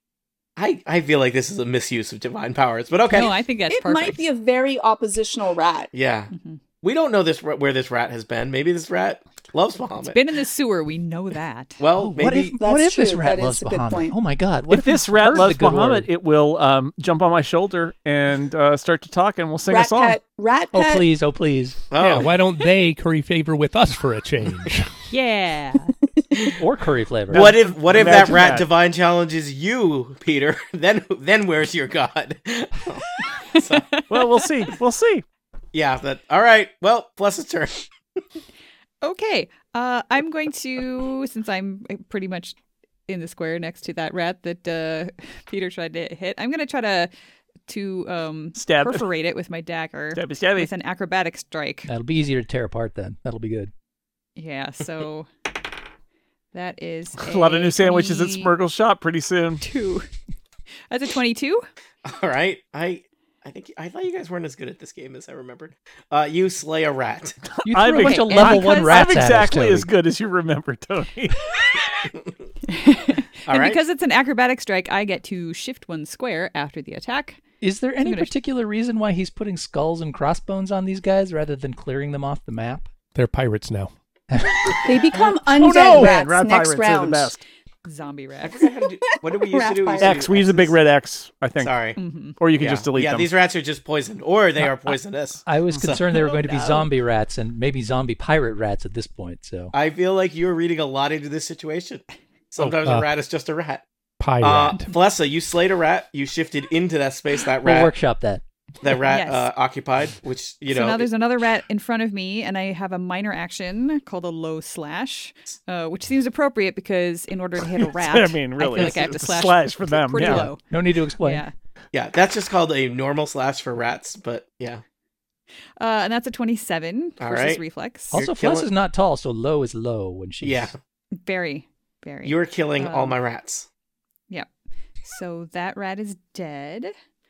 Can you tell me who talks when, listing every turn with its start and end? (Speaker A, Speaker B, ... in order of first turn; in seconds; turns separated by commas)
Speaker A: 0.6-3.4, Speaker B: 3.1-4.2, Speaker C: 3.7-5.9, Speaker A: 5.9-6.3, Speaker B: 6.3-6.6, Speaker A: 6.8-10.2, Speaker B: 10.1-11.8, Speaker A: 11.8-12.6, Speaker D: 12.0-16.1, Speaker C: 12.6-14.1, Speaker E: 14.7-20.2, Speaker C: 19.7-21.1, Speaker D: 20.7-21.8, Speaker A: 21.9-22.3, Speaker F: 22.0-24.9, Speaker B: 25.1-25.9, Speaker A: 26.3-26.6, Speaker D: 26.6-27.5, Speaker A: 27.3-34.0, Speaker E: 27.3-28.7, Speaker B: 33.5-34.2, Speaker E: 34.1-35.2, Speaker A: 35.7-37.9, Speaker B: 39.0-42.5, Speaker B: 43.1-47.1, Speaker B: 47.7-51.9, Speaker E: 48.5-49.0, Speaker E: 50.1-50.7, Speaker D: 51.9-53.7, Speaker B: 54.4-55.3, Speaker B: 56.5-58.5, Speaker E: 57.2-59.6, Speaker B: 59.6-60.1, Speaker B: 60.9-61.7, Speaker A: 62.0-67.4, Speaker E: 67.6-71.4, Speaker D: 67.6-69.9, Speaker B: 68.0-69.2, Speaker B: 72.7-77.4, Speaker A: 73.5-73.8, Speaker D: 77.6-82.9, Speaker B: 78.0-78.3, Speaker F: 83.1-83.9, Speaker D: 84.3-85.2, Speaker C: 84.8-87.4, Speaker E: 85.1-87.4, Speaker B: 87.8-88.6, Speaker A: 88.4-90.8, Speaker C: 89.1-90.2, Speaker E: 90.0-91.7, Speaker A: 91.6-92.0, Speaker B: 92.0-92.4, Speaker E: 92.4-93.3, Speaker A: 92.6-96.2, Speaker D: 94.6-94.9, Speaker D: 95.5-99.7, Speaker B: 96.5-96.8, Speaker A: 99.7-103.8, Speaker F: 102.6-103.1, Speaker F: 104.2-104.9, Speaker A: 104.4-107.9, Speaker D: 107.6-108.4, Speaker A: 108.8-111.1, Speaker B: 109.0-109.5, Speaker B: 110.7-120.6, Speaker E: 117.8-120.5, Speaker D: 118.7-119.0, Speaker D: 120.2-121.4, Speaker B: 121.2-121.5, Speaker A: 121.9-124.8, Speaker B: 125.8-128.2, Speaker A: 127.2-127.6, Speaker D: 128.1-130.7, Speaker A: 128.1-128.7, Speaker A: 130.4-130.8, Speaker B: 131.1-133.2, Speaker A: 132.2-133.7, Speaker B: 135.0-136.9